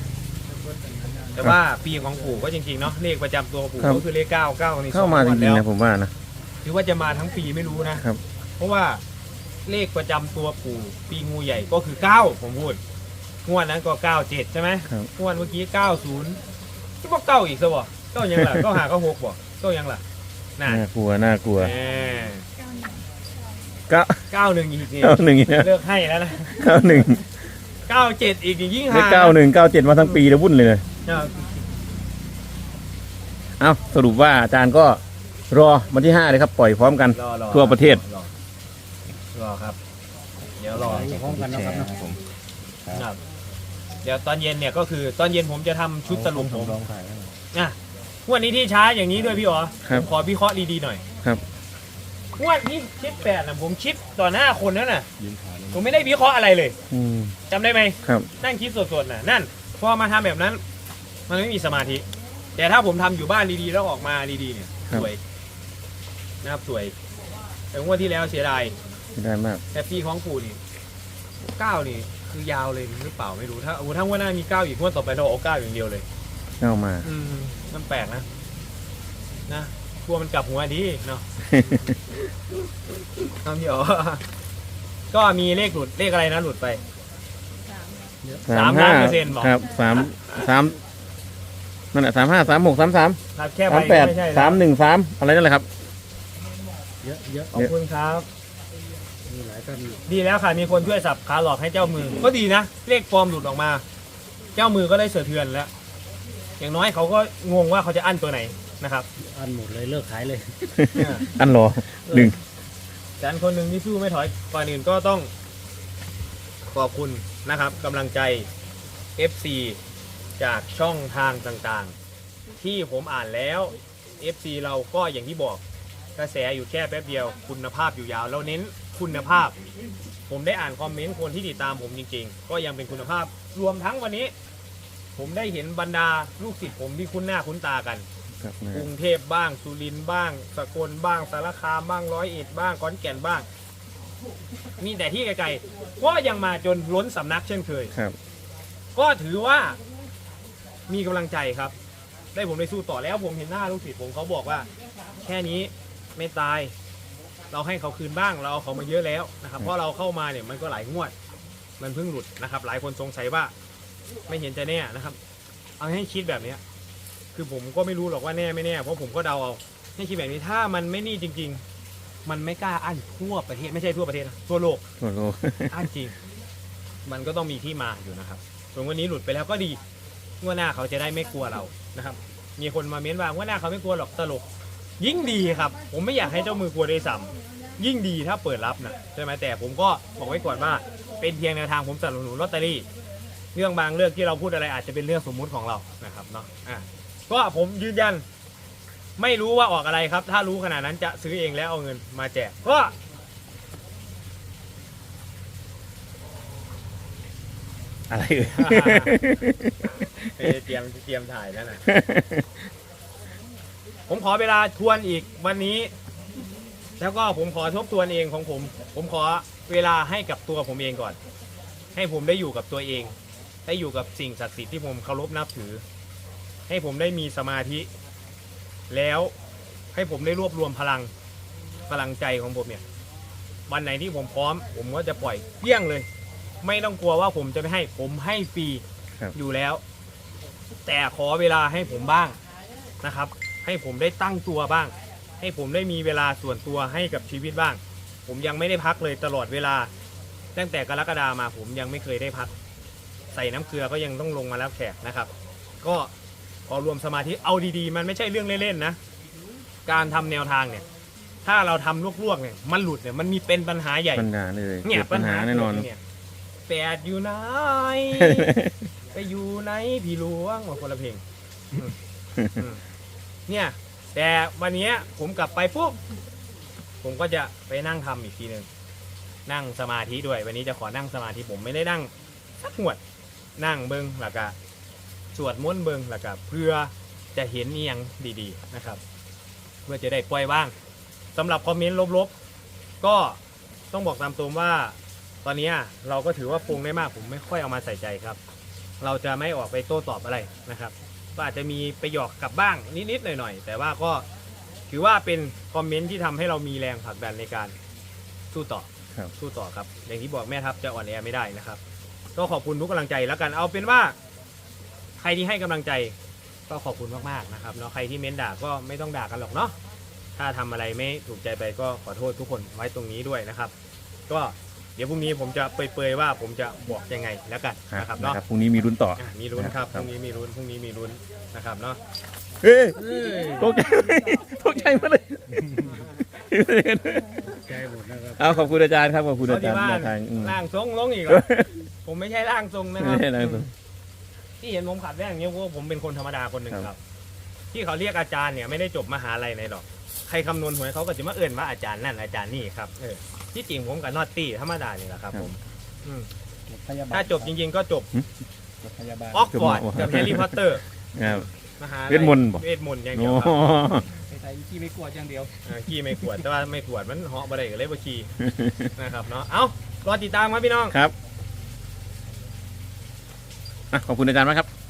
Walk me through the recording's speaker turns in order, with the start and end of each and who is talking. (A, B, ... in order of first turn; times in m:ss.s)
0:00.5-0:01.5 A
0:01.4-0:05.6 B
0:04.9-0:06.1 C
0:06.6-0:08.0 B
0:08.6-0:09.0 B
0:09.7-0:12.8 B
0:13.5-0:16.4 B
0:17.0-0:20.0 B
0:20.6-0:20.9 B
0:20.7-0:21.7 C
0:21.6-0:22.5 B
0:23.9-0:24.2 C
0:24.3-0:26.6 B
0:25.0-0:25.7 C
0:26.5-0:27.2 C
0:27.9-0:29.4 B
0:28.9-0:30.8 C
0:31.0-0:31.5 B
0:33.6-0:38.0 C
0:37.1-0:38.3 B
0:39.3-0:39.8 B
0:40.6-0:41.1 B
0:40.8-0:42.2 C
0:40.8-0:42.1 A
0:42.9-0:43.2 B
0:44.0-0:46.8 B
0:46.2-0:46.8 A
0:46.3-0:47.2 C
0:47.5-0:51.0 B
0:52.4-0:55.1 B
0:55.3-0:55.6 A
0:55.7-0:56.8 B
0:56.9-0:57.4 C
0:57.5-1:00.6 B
1:01.3-1:02.0 B
1:02.6-1:05.2 B
1:06.4-1:06.9 B
1:07.7-1:08.8 B
1:09.2-1:09.6 C
1:09.7-1:10.6 B
1:11.5-1:16.1 B
1:16.6-1:17.1 C
1:17.0-1:18.3 B
1:19.5-1:21.8 B
1:23.3-1:24.2 B
1:25.1-1:26.8 B
1:28.5-1:30.8 C
1:28.5-1:29.6 B
1:31.9-1:35.7 C
1:33.4-1:34.6 B
1:37.0-1:37.5 A
1:37.5-1:38.3 B
1:39.3-1:40.0 A
1:40.1-1:43.8 B
1:44.6-1:45.7 B
1:46.6-1:49.1 B
1:49.2-1:50.6 A
1:50.8-1:52.4 C
1:51.0-1:51.3 B
1:52.1-1:52.4 A
1:53.2-1:55.3 B
1:56.7-1:58.5 B
1:59.2-1:59.8 B
2:00.4-2:02.0 B
2:02.6-2:05.6 B
2:06.2-2:09.5 B
2:10.3-2:14.3 B
2:15.2-2:18.0 B
2:18.4-2:18.9 C
2:18.7-2:23.5 B
2:24.8-2:27.9 B
2:29.0-2:29.8 B
2:30.9-2:31.7 B
2:32.3-2:34.7 B
2:35.2-2:36.7 B
2:37.5-2:41.1 B
2:41.8-2:43.5 B
2:44.3-2:45.2 B
2:45.8-2:46.6 B
2:47.3-2:51.6 B
2:52.2-2:54.8 B
2:55.0-2:55.8 C
2:55.7-2:56.2 B
2:57.0-2:59.8 B
3:00.4-3:04.4 B
3:05.0-3:12.9 B
3:13.5-3:18.2 B
3:19.2-3:22.9 B
3:28.1-3:30.5 C
3:28.5-3:29.2 B
3:30.4-3:31.8 B
3:31.9-3:32.6 C
3:34.1-3:35.9 B
3:37.0-3:41.2 B
3:42.0-3:43.2 B
3:43.7-3:45.8 B
3:46.7-3:47.9 B
3:48.9-3:49.3 B
3:49.9-3:51.1 B
3:51.9-3:52.8 B
3:53.7-3:56.1 B
3:56.6-3:58.8 B
3:59.3-3:59.8 B
4:00.9-4:02.4 B
4:03.0-4:09.9 B
4:10.6-4:12.5 B
4:13.3-4:15.3 B
4:15.8-4:16.1 B
4:16.7-4:19.0 B
4:19.9-4:20.8 B
4:21.4-4:24.3 B
4:24.2-4:25.9 C
4:24.8-4:26.0 B
4:26.7-4:28.5 B
4:28.2-4:28.8 C
4:29.1-4:32.0 B
4:32.6-4:32.8 B
4:33.5-4:36.0 B
4:37.0-4:38.7 B
4:39.5-4:43.0 B
4:43.6-4:44.6 B
4:45.3-4:49.0 B
4:49.9-4:50.7 B
4:51.4-4:52.3 B
4:53.0-4:53.4 B
4:53.9-4:58.4 B
4:59.0-5:04.2 B
5:04.9-5:07.8 B
5:08.5-5:11.8 B
5:12.4-5:14.2 B
5:15.2-5:16.2 B
5:16.7-5:19.7 B
5:20.4-5:23.7 B
5:24.3-5:28.4 B
5:27.9-5:30.1 C
5:29.2-5:32.0 B
5:32.6-5:37.5 C
5:33.0-5:33.7 A
5:37.6-5:38.7 A
5:38.4-5:40.6 C
5:39.4-5:41.5 B
5:41.3-5:41.7 C
5:42.0-5:43.7 B
5:43.0-5:43.7 C
5:44.6-5:47.0 B
5:47.7-5:56.3 B
5:56.7-5:57.5 A
5:57.1-5:58.1 B
5:58.8-5:59.5 A
5:59.3-6:03.6 B
5:59.5-6:00.6 C
6:01.2-6:01.5 C
6:02.1-6:04.1 C
6:04.2-6:05.6 A
6:05.7-6:08.3 B
6:08.4-6:08.9 C
6:09.0-6:11.0 B
6:13.9-6:14.7 C